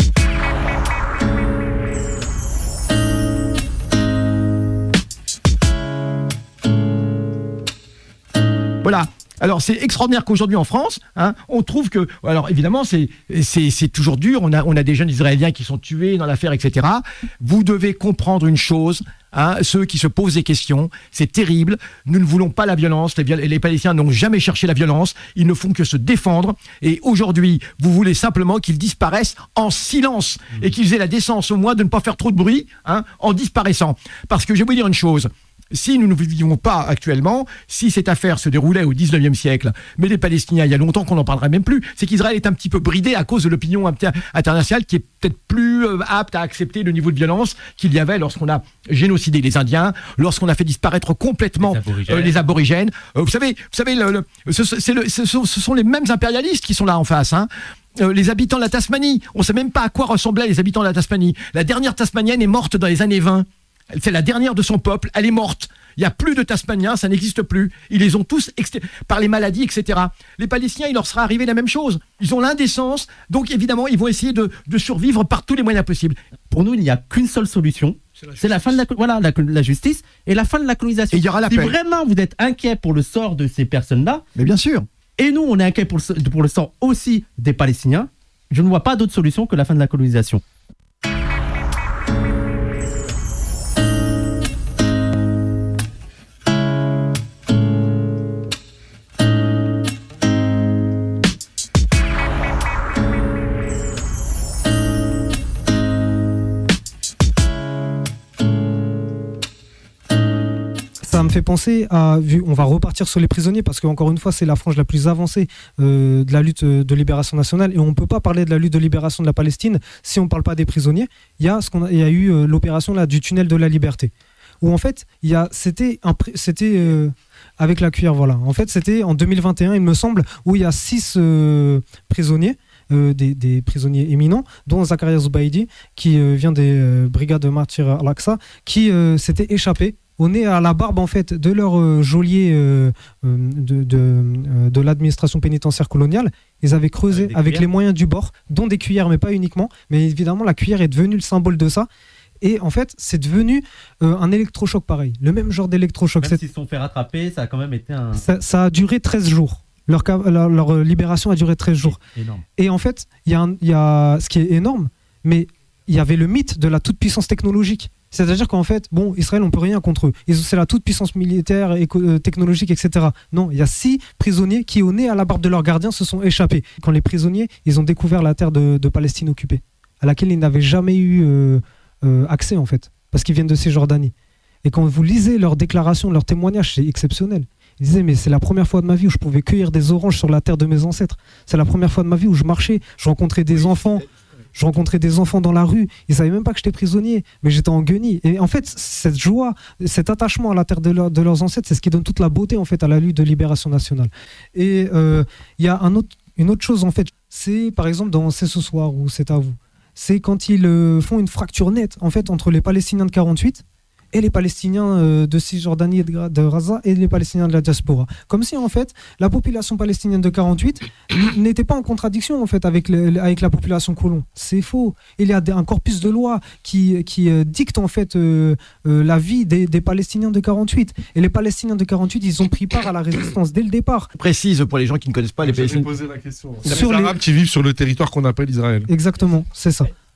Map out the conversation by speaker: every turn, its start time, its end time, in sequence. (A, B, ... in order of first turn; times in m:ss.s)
0:08.8-0:57.5 A
0:51.6-0:52.4 B
0:58.0-1:16.2 A
1:16.5-1:24.2 B
1:21.1-1:21.7 A
1:24.4-1:24.8 A
1:25.2-1:30.4 B
1:51.0-2:31.9 C
2:27.1-2:27.7 B
2:32.4-2:36.4 C
2:36.2-2:38.2 B
2:38.2-2:42.0 C
2:41.8-2:42.4 B
2:42.6-3:04.1 C
3:04.6-3:14.0 C
3:14.5-3:54.1 C
3:54.2-3:55.9 A
3:55.4-3:58.9 D
3:56.6-3:57.2 C
3:58.9-3:59.9 C